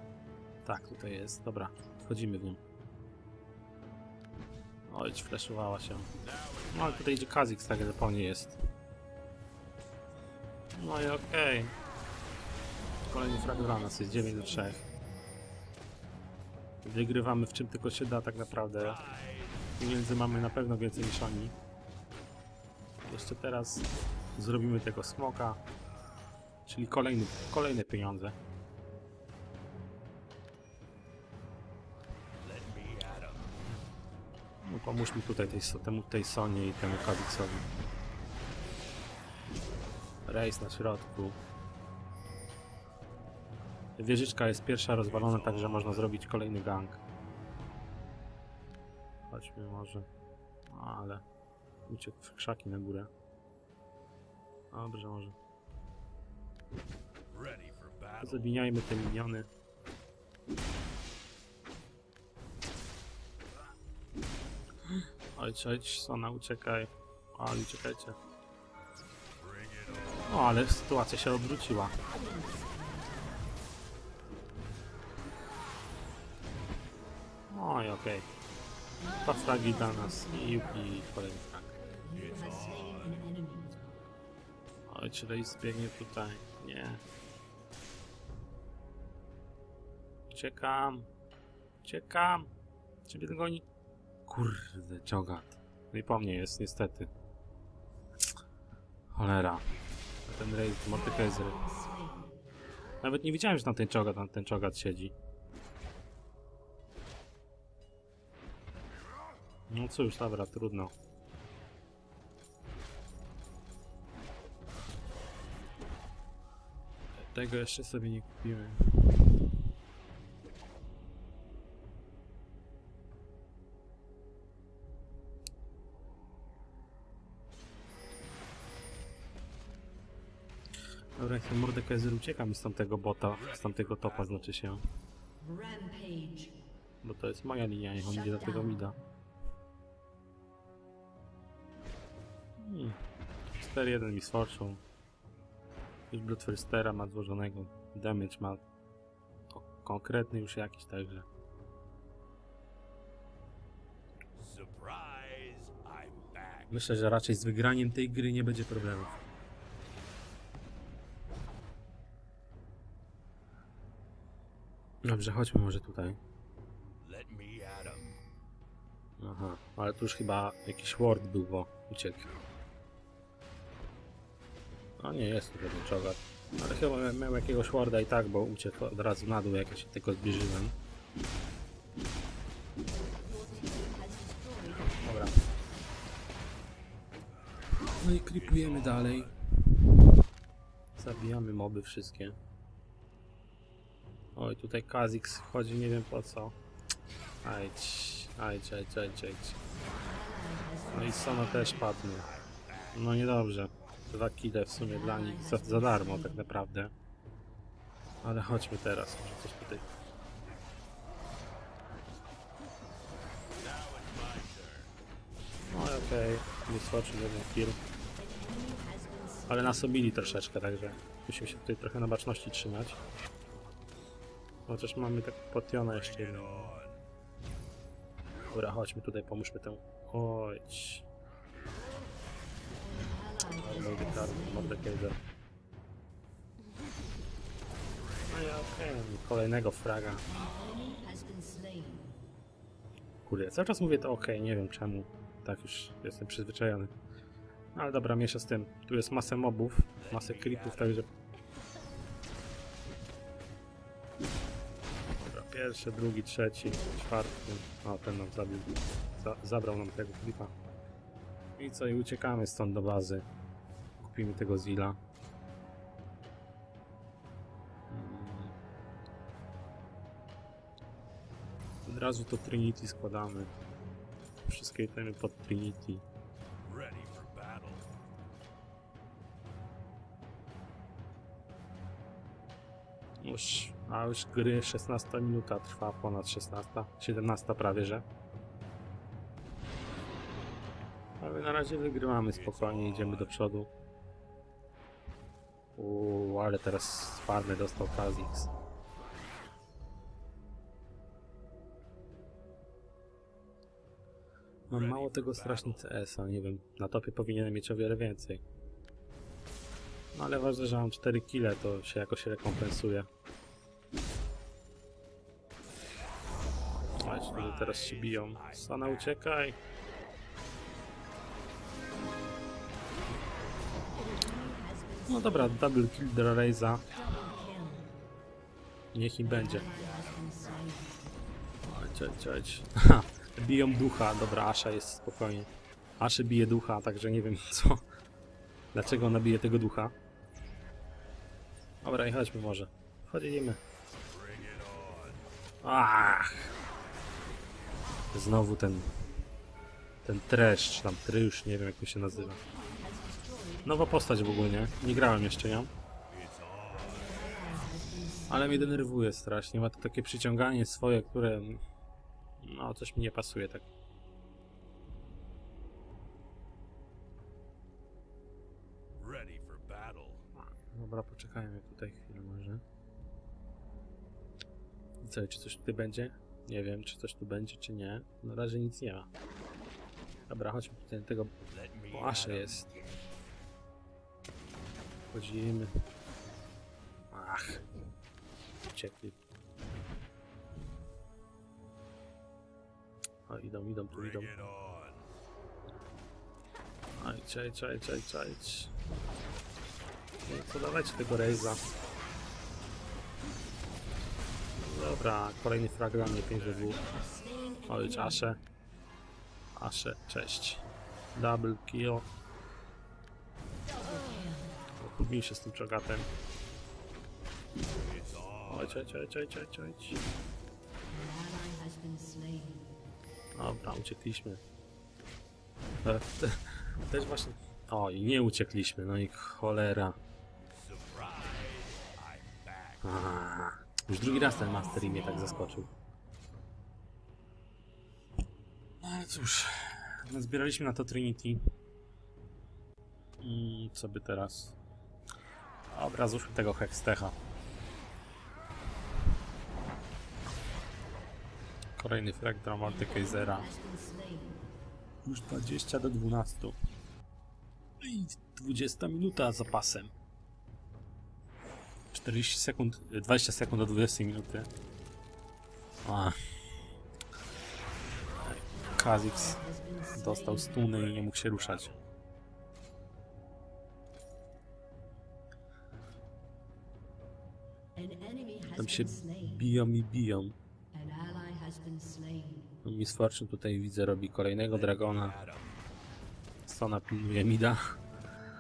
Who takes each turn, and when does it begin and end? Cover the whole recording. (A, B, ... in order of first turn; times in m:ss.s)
0:00.6-0:02.6 A
0:04.9-0:06.1 A
0:06.2-0:07.2 B
0:06.7-0:08.6 A
0:10.8-0:11.7 A
0:13.1-0:14.8 A
0:13.1-0:14.9 C
0:16.8-0:19.0 A
0:18.7-0:19.8 B
0:19.8-0:21.5 A
0:23.1-0:25.6 A
0:26.7-0:28.4 A
0:32.4-0:33.6 B
0:34.6-0:37.7 A
0:40.3-0:41.4 A
0:44.0-0:47.0 A
0:45.0-0:46.2 B
0:49.3-0:50.1 A
0:50.7-0:51.2 A
0:51.9-0:53.1 A
0:54.7-0:55.4 A
0:57.3-0:58.6 B
0:58.2-0:59.5 A
1:04.9-1:08.2 A
1:09.4-1:10.2 B
1:10.3-1:12.0 A
1:12.0-1:13.4 C
1:17.5-1:18.3 A
1:19.0-1:20.7 C
1:19.2-1:21.7 A
1:22.0-1:23.8 C
1:22.1-1:23.2 B
1:24.9-1:27.0 A
1:30.3-1:31.1 A
1:31.8-1:32.5 A
1:33.1-1:33.6 A
1:34.3-1:37.1 A
1:39.1-1:39.6 A
1:40.3-1:41.6 A
1:40.9-1:42.4 C
1:43.0-1:45.1 A
1:49.7-1:50.9 A
1:57.2-1:59.4 A
2:11.2-2:14.8 A
2:13.3-2:14.6 B
2:15.4-2:16.6 C
2:17.0-2:19.0 A
2:18.0-2:18.8 C
2:22.6-2:23.0 A
2:23.6-2:24.8 A
2:26.1-2:28.6 A
2:29.5-2:31.3 A
2:34.4-2:36.7 B
2:36.7-2:39.1 A
2:45.0-2:46.2 A
2:47.0-2:48.2 B
2:49.2-2:52.3 A
2:55.0-3:00.7 A
3:03.2-3:05.1 C
3:04.8-3:05.4 A
3:07.8-3:10.0 A
3:08.3-3:09.4 B
3:11.0-3:12.4 A
3:14.4-3:16.6 A
3:17.4-3:19.6 A
3:20.0-3:21.9 C
3:20.9-3:22.3 A
3:21.6-3:23.0 B
3:22.9-3:26.9 A
3:24.8-3:26.5 C
3:28.2-3:29.8 A
3:33.6-3:34.9 B
3:35.7-3:37.8 A
3:38.2-3:40.0 C
3:39.5-3:43.0 A
3:44.7-3:46.7 A
3:45.9-3:47.0 B
3:48.5-3:51.0 A
3:52.8-3:54.9 C
3:53.5-3:55.2 A
3:57.9-3:59.0 B
3:58.3-4:00.2 A
4:00.3-4:02.2 C
4:03.2-4:06.9 A
4:07.8-4:11.1 A
4:10.0-4:11.0 B
4:15.2-4:20.5 A
4:21.6-4:23.3 A
4:24.0-4:25.0 A
4:27.9-4:28.6 A
4:31.9-4:33.5 A
4:34.4-4:36.0 A
4:36.6-4:37.9 B
4:43.2-4:48.0 A
4:51.2-4:53.7 A
4:52.3-4:53.4 B
4:55.8-4:58.5 A
5:04.7-5:05.9 B
5:04.7-5:08.4 A
5:10.2-5:13.1 A
5:17.0-5:19.6 A
5:17.1-5:19.2 B
5:24.0-5:25.8 C
5:25.1-5:26.8 A
5:26.9-5:28.0 C
5:28.9-5:29.7 A
5:29.2-5:31.1 C
5:29.8-5:30.1 B
5:31.7-5:37.8 A
5:38.7-5:39.9 A
5:41.8-5:43.6 A
5:44.1-5:45.3 B
5:45.6-5:46.5 A
5:48.1-5:48.9 A
5:50.0-5:52.4 A
5:52.1-5:54.7 C
5:53.6-5:55.7 A
5:56.1-5:57.2 B
5:56.9-5:58.9 C
5:58.3-6:01.6 A
6:02.4-6:03.7 A
6:08.9-6:10.3 B
6:10.6-6:12.6 A
6:15.0-6:19.1 A
6:20.3-6:21.3 A
6:21.5-6:22.8 B
6:21.9-6:22.7 A
6:25.1-6:25.7 A
6:27.1-6:27.6 A
6:28.7-6:29.2 A
6:33.3-6:34.3 A
6:33.9-6:35.1 B
6:37.0-6:38.7 A
6:40.3-6:41.6 A
6:44.6-6:46.8 A
6:46.4-6:46.8 B
6:46.9-6:48.3 C
6:47.7-6:48.4 A
6:49.6-6:52.1 A
6:53.7-6:54.6 C
6:54.8-6:56.1 A
6:57.8-6:58.8 B
6:58.5-7:00.0 A
7:00.9-7:02.8 C
7:03.4-7:04.4 A
7:05.8-7:10.0 A
7:10.5-7:12.9 B
7:12.8-7:15.7 A
7:14.0-7:15.6 C
7:18.8-7:21.4 A
7:23.2-7:24.6 A
7:25.7-7:27.2 A
7:31.8-7:33.5 A
7:32.6-7:34.5 C
7:35.0-7:36.6 A
7:37.8-7:39.9 A
7:41.9-7:44.5 A
7:45.8-7:46.2 A
7:48.2-7:49.4 A
7:48.5-7:50.6 C
7:50.0-7:51.7 A
7:50.6-7:51.9 B
7:57.8-7:59.5 C
7:58.6-8:00.4 A
8:00.7-8:02.6 C
8:02.6-8:05.2 A
8:04.5-8:05.6 B
8:06.5-8:07.8 A